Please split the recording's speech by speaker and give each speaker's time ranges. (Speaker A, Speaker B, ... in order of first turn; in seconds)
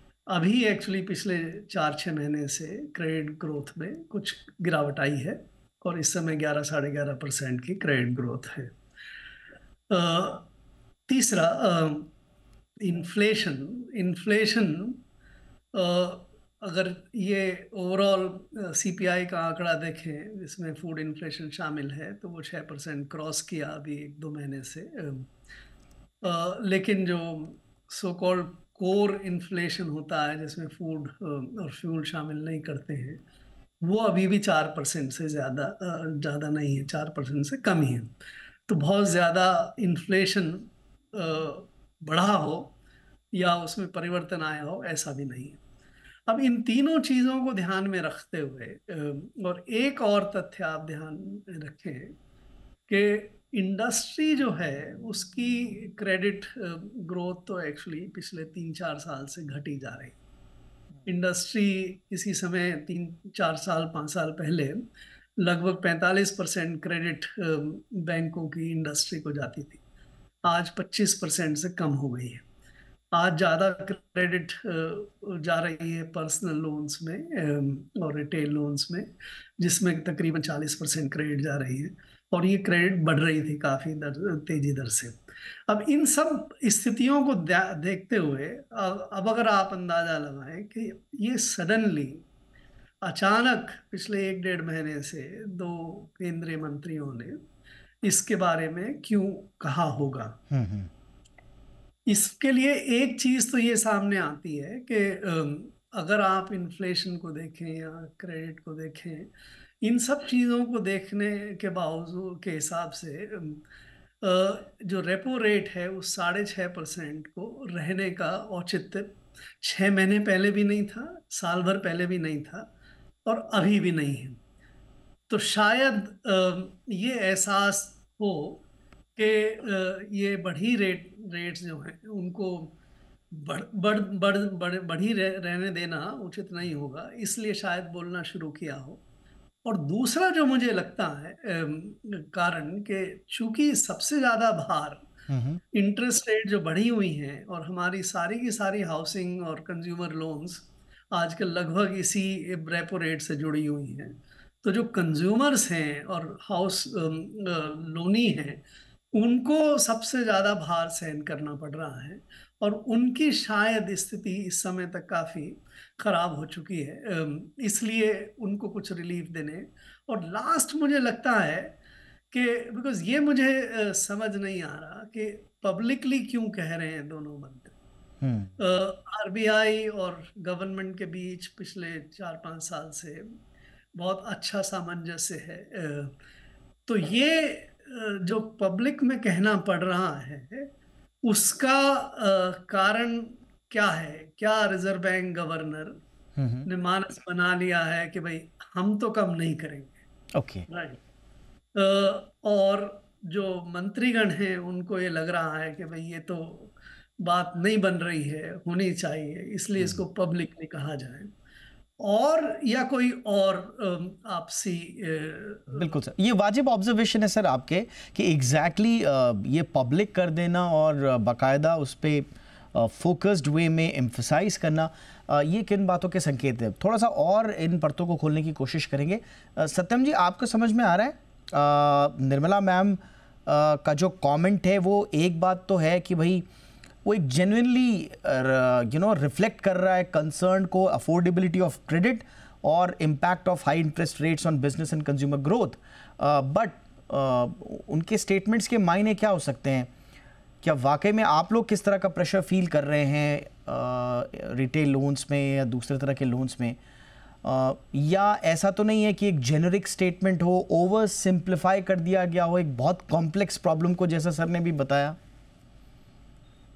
Speaker A: 0.3-8.7, 9.9-10.5, 11.1-12.1, 12.8-15.0, 15.7-25.3, 26.2-33.2, 33.8-38.1, 38.7-42.7, 43.3-45.6, 46.3-52.1, 52.9-60.1, 61.0-64.8, 65.4-69.8, 70.4-72.4, 73.1-92.2, 93.0-97.4, 98.0-100.4, 102.0-109.3, 109.8-113.6, 114.2-122.7, 123.2-124.4, 125.3-128.6, 129.2-132.8, 133.3-139.0, 139.6-145.1, 145.7-171.7, 172.3-177.7, 178.6-183.4, 183.9-186.2, 186.9-190.7, 191.2-196.0, 196.6-200.0, 200.7-201.0, 201.7-211.3, 212.0-215.9
Speaker B: 100.5-100.9, 145.3-145.6, 178.2-178.5, 196.3-196.6, 200.3-200.6, 215.8-236.4, 237.0-249.9, 250.6-256.8, 257.4-265.2